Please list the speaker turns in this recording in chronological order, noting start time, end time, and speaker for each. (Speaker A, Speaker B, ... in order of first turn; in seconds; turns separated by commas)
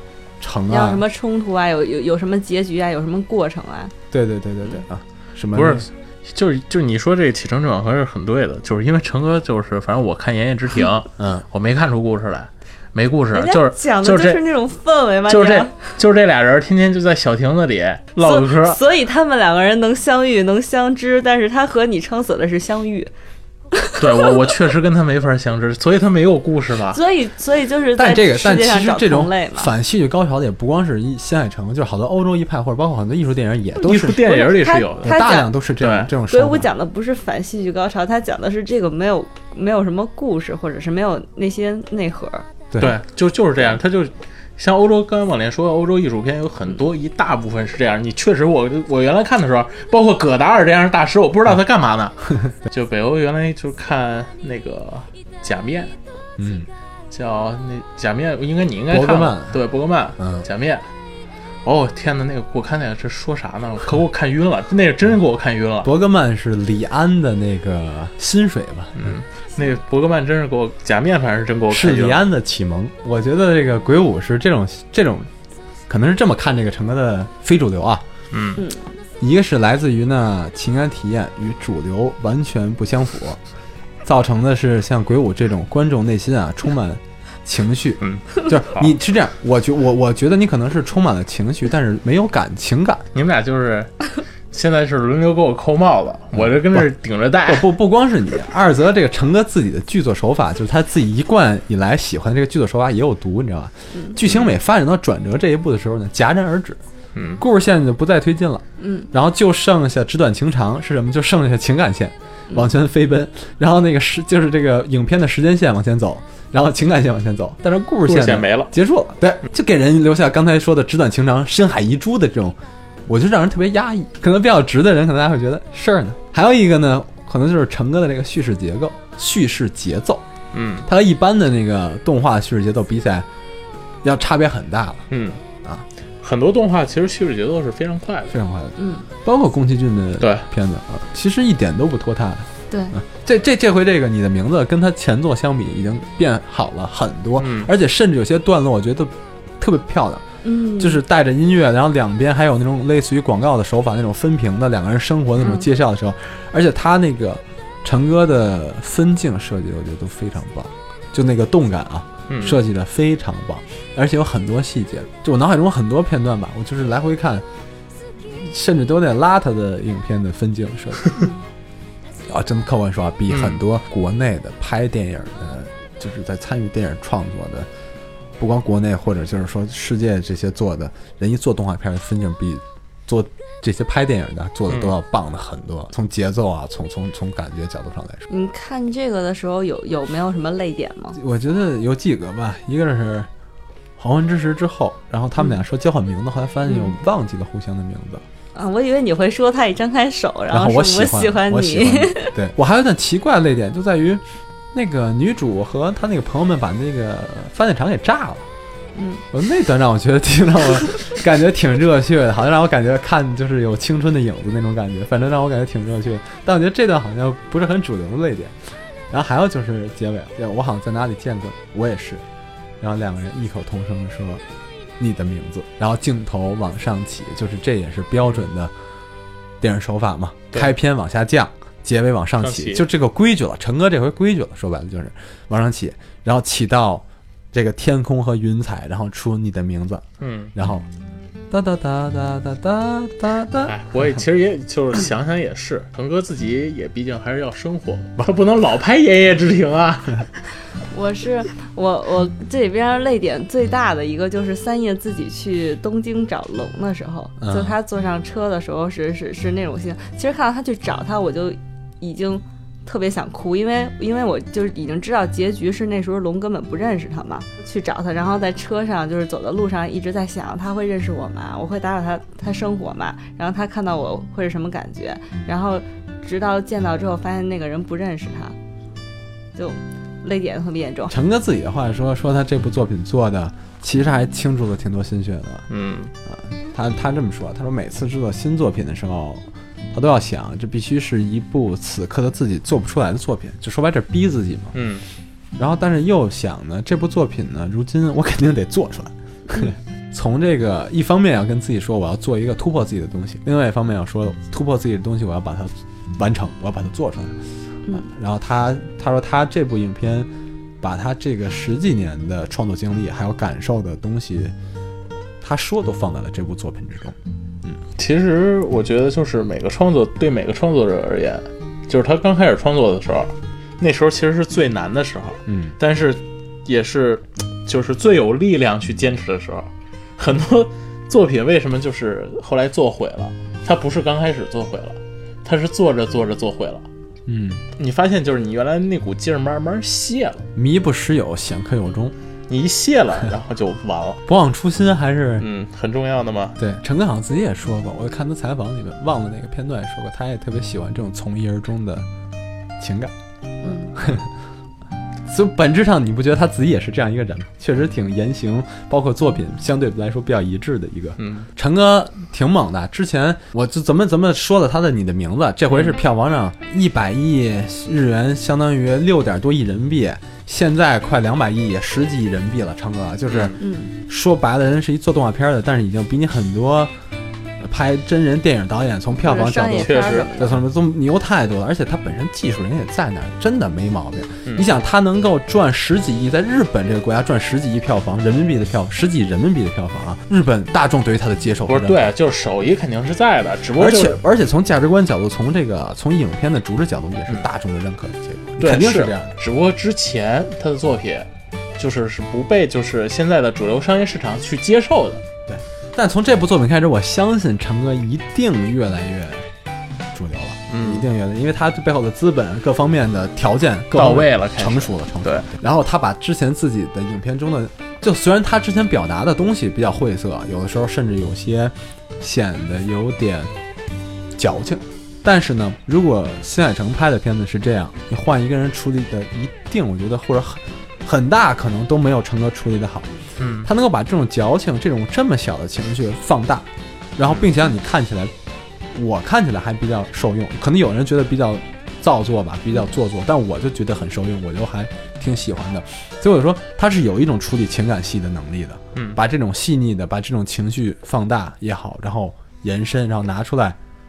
Speaker A: 0.4-1.0, Speaker B: 0.7-3.9, Speaker A: 4.1-5.9, Speaker C: 5.5-14.4, Speaker A: 11.2-11.5, Speaker B: 13.3-15.9, Speaker C: 15.3-18.8, Speaker B: 18.2-23.1, Speaker B: 23.7-24.3, Speaker C: 24.0-27.0, Speaker B: 26.9-29.7, Speaker A: 28.0-34.4, Speaker C: 33.8-35.2, Speaker B: 34.0-35.5, Speaker A: 35.0-36.7, Speaker C: 35.8-36.1, Speaker B: 36.3-42.5, Speaker A: 42.7-43.0, Speaker C: 42.8-56.0, Speaker A: 56.4-56.7, Speaker C: 57.1-60.9, Speaker A: 58.9-59.6, Speaker A: 60.2-60.5, Speaker C: 61.6-65.9, Speaker A: 65.8-69.2, Speaker C: 69.0-72.2, Speaker A: 71.7-75.3, Speaker A: 75.9-78.0, Speaker C: 78.3-78.6, Speaker B: 78.6-78.9, Speaker A: 79.2-83.4, Speaker A: 84.0-93.1, Speaker C: 88.0-88.9, Speaker C: 93.1-97.7, Speaker A: 96.3-96.9, Speaker A: 97.5-106.8, Speaker B: 103.9-104.2, Speaker C: 104.2-104.6, Speaker C: 107.2-107.4, Speaker A: 107.4-130.2, Speaker B: 108.8-109.1, Speaker C: 118.1-118.7, Speaker C: 130.5-130.9, Speaker A: 130.8-133.3, Speaker A: 134.0-135.1, Speaker C: 135.1-135.4, Speaker C: 136.2-138.3, Speaker A: 138.3-150.3, Speaker B: 138.8-139.1, Speaker C: 140.2-140.5, Speaker B: 142.7-143.0, Speaker C: 147.4-147.7, Speaker B: 150.4-151.0, Speaker A: 150.8-167.4, Speaker B: 155.4-155.7, Speaker C: 162.3-162.6, Speaker A: 168.3-171.2, Speaker A: 172.3-177.7, Speaker C: 173.3-173.6, Speaker A: 178.4-188.3, Speaker C: 184.7-184.9, Speaker B: 188.3-191.2, Speaker A: 191.1-193.3, Speaker A: 194.0-198.2, Speaker B: 196.7-196.9, Speaker B: 198.6-202.3, Speaker A: 200.5-208.5, Speaker B: 208.9-209.2, Speaker A: 209.3-218.6, Speaker A: 219.1-222.2, Speaker A: 222.8-224.4, Speaker A: 225.0-228.7, Speaker A: 229.6-240.9, Speaker C: 232.4-232.8, Speaker C: 240.2-240.5, Speaker A: 241.5-244.2, Speaker C: 243.6-250.4, Speaker B: 250.9-278.6, Speaker A: 257.4-257.8, Speaker B: 279.6-281.1, Speaker A: 281.1-285.7, Speaker C: 285.7-286.1, Speaker A: 286.2-294.8, Speaker C: 294.7-295.1, Speaker A: 295.6-307.4, Speaker A: 307.9-310.3, Speaker A: 310.8-314.5, Speaker A: 315.4-317.8, Speaker C: 318.0-336.9, Speaker A: 325.5-325.8, Speaker A: 337.3-337.6, Speaker C: 337.8-340.5, Speaker A: 340.6-342.1, Speaker C: 342.5-344.2, Speaker A: 344.3-345.5, Speaker C: 345.4-346.6, Speaker A: 346.6-352.1, Speaker A: 352.8-353.1, Speaker B: 353.6-354.0, Speaker A: 353.7-354.3, Speaker A: 355.3-376.9, Speaker C: 361.2-361.5, Speaker C: 365.7-366.0, Speaker C: 373.3-373.6, Speaker B: 373.6-373.9, Speaker A: 377.6-392.1, Speaker B: 379.2-380.6, Speaker C: 379.7-380.3, Speaker C: 391.7-394.2, Speaker A: 393.8-399.4, Speaker C: 398.6-405.2, Speaker A: 405.5-409.5, Speaker A: 410.1-423.5, Speaker C: 410.7-411.1, Speaker C: 413.9-415.5, Speaker A: 424.4-433.1, Speaker C: 433.4-433.7, Speaker A: 433.6-438.3, Speaker A: 438.9-453.8, Speaker C: 448.9-449.2